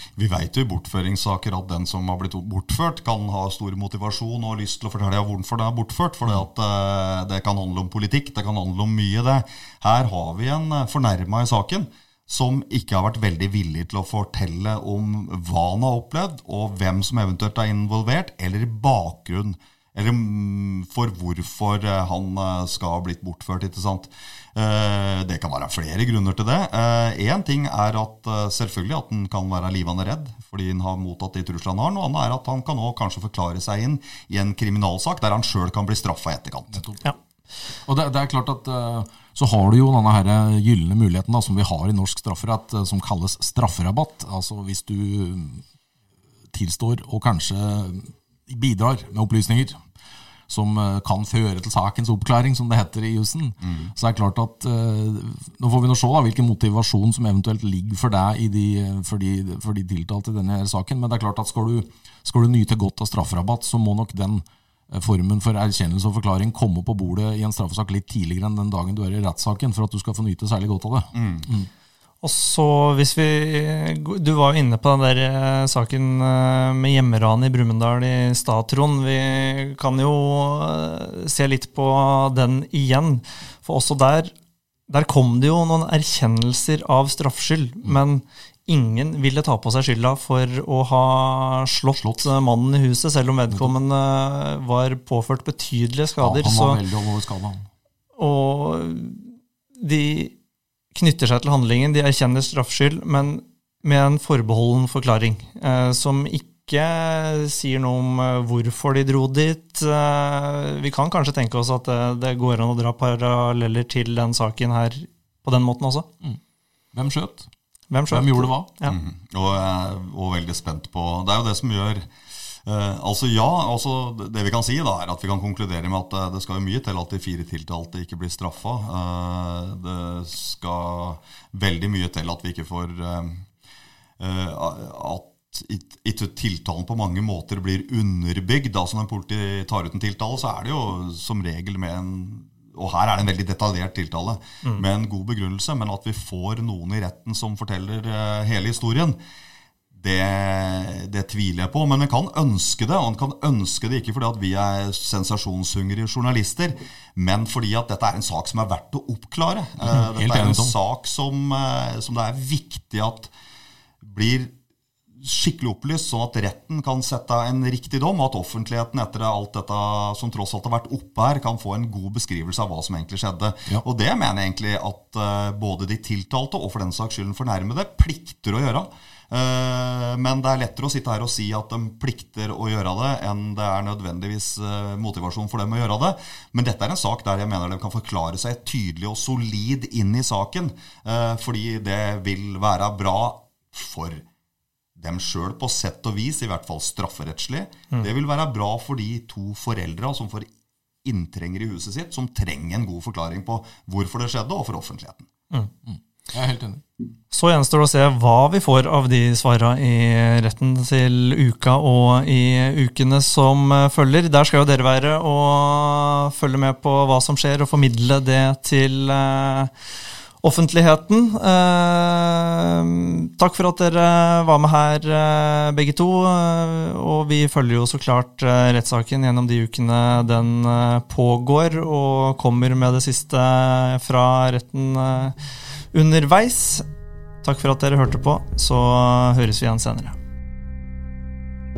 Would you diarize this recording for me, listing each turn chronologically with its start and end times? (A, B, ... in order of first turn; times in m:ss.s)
0:00.2-0:36.8 A
0:36.7-0:37.0 B
0:37.8-0:45.6 B
0:46.5-0:49.8 B
0:50.5-1:11.7 B
0:53.6-0:53.9 A
1:11.1-1:11.5 A
1:12.2-1:24.3 C
1:24.9-1:36.8 C
1:31.9-1:32.3 B
1:36.2-1:37.7 B
1:38.2-1:40.3 C
1:40.9-1:56.1 C
1:56.9-1:57.5 B
1:57.9-1:59.0 C
1:58.1-1:58.7 B
1:58.9-2:02.1 A
2:02.6-2:13.4 A
2:14.2-2:29.2 A
2:29.9-2:43.3 A
2:39.8-2:40.8 B
2:44.0-2:44.5 A
2:45.2-3:14.2 A
3:15.0-3:20.5 A
3:21.0-3:25.3 A
3:25.8-3:26.8 B
3:27.3-3:39.7 C
3:40.4-3:55.4 C
3:55.9-3:56.9 C
3:57.4-4:00.2 C